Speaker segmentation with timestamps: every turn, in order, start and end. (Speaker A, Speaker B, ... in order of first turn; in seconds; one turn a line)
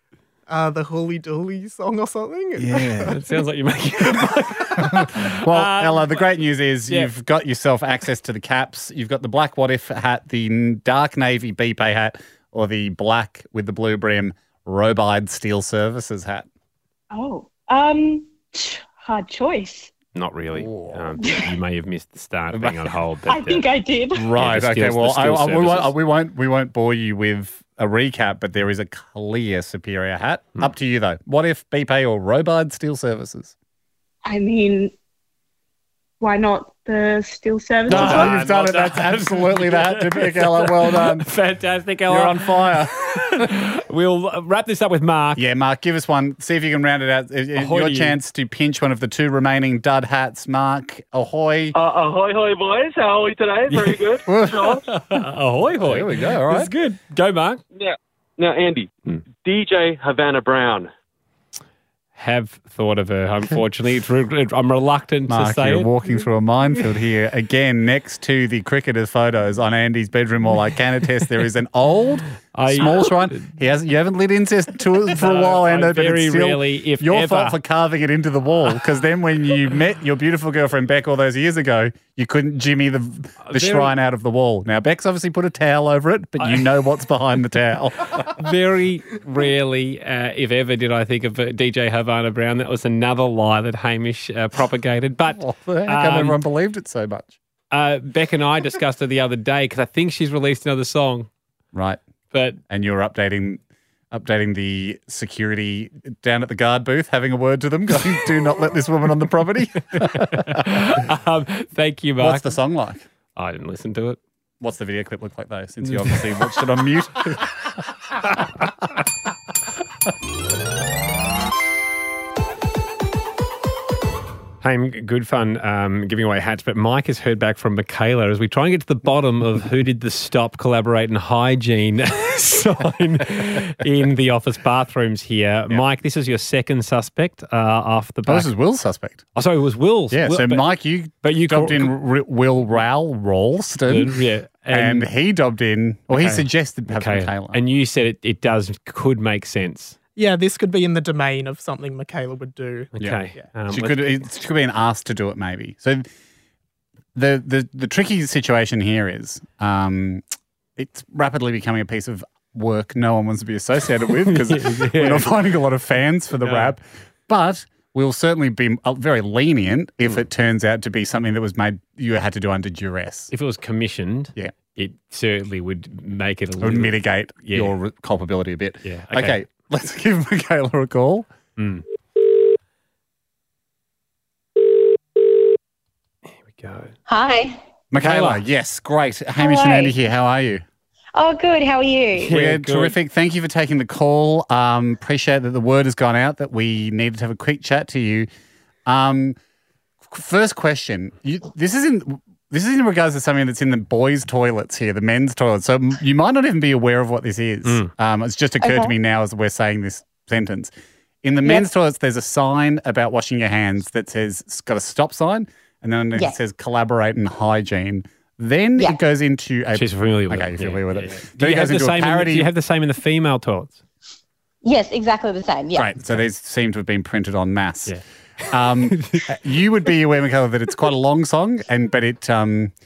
Speaker A: 0.5-3.2
Speaker B: 2.6-3.2
Speaker C: 3.1-7.1
Speaker B: 4.8-16.5
Speaker D: 17.1-19.9
Speaker C: 20.1-23.7
Speaker B: 20.5-21.2
Speaker D: 21.2-21.5
Speaker B: 22.5-22.9
Speaker D: 23.3-24.3
Speaker B: 24.1-33.5
Speaker C: 24.3-25.9
Speaker D: 34.2-34.9
Speaker D: 36.2-38.4
Speaker B: 37.9-41.3
Speaker C: 37.9-45.4
Speaker B: 42.1-43.5
Speaker B: 45.4-51.7
Speaker C: 47.5-48.2
Speaker E: 51.7-54.8
Speaker C: 53.7-54.2
Speaker B: 54.2-54.8
Speaker C: 54.8-57.6
Speaker B: 55.8-56.7
Speaker E: 57.7-58.9
Speaker E: 59.4-60.9
Speaker C: 62.1-65.9
Speaker B: 65.3-88.3
Speaker C: 72.5-73.5
Speaker C: 75.1-77.6
Speaker C: 83.4-83.9
Speaker C: 88.3-96.4
Speaker B: 95.3-97.3
Speaker C: 97.7-101.3
Speaker B: 101.7-102.0
Speaker C: 102.3-102.6
Speaker B: 102.7-111.0
Speaker C: 109.9-112.5
Speaker B: 112.2-113.0
Speaker C: 113.3-114.2
Speaker B: 114.6-117.5
Speaker C: 115.8-116.2
Speaker C: 124.6-138.5
Speaker B: 138.2-139.2
Speaker C: 139.3-140.6
Speaker B: 140.1-144.2
Speaker C: 141.2-141.9
Speaker C: 143.8-145.1
Speaker B: 144.7-147.6
Speaker C: 146.1-150.0
Speaker A: 150.2-153.4
Speaker C: 152.9-154.1
Speaker B: 153.7-156.1
Speaker B: 157.1-160.2
Speaker B: 160.8-173.3
Speaker C: 164.1-165.4
Speaker C: 166.4-166.7
Speaker C: 173.3-177.7
Speaker B: 176.6-181.3
Speaker C: 178.8-179.4
Speaker C: 181.6-181.8
Speaker C: 186.4-186.9
Speaker F: 187.1-187.6
Speaker B: 187.9-190.6
Speaker C: 188.0-188.4
Speaker F: 189.4-189.9
Speaker F: 191.1-192.3
Speaker C: 192.2-192.9
Speaker B: 192.3-198.3
Speaker B: 198.8-199.4
Speaker B: 200.1-210.7
Speaker C: 207.6-207.9
Speaker F: 208.6-208.9
Speaker B: 211.2-222.5
Speaker C: 219.7-223.8
Speaker F: 224.6-225.9
Speaker B: 225.7-227.9
Speaker B: 228.5-232.7
Speaker C: 228.9-229.3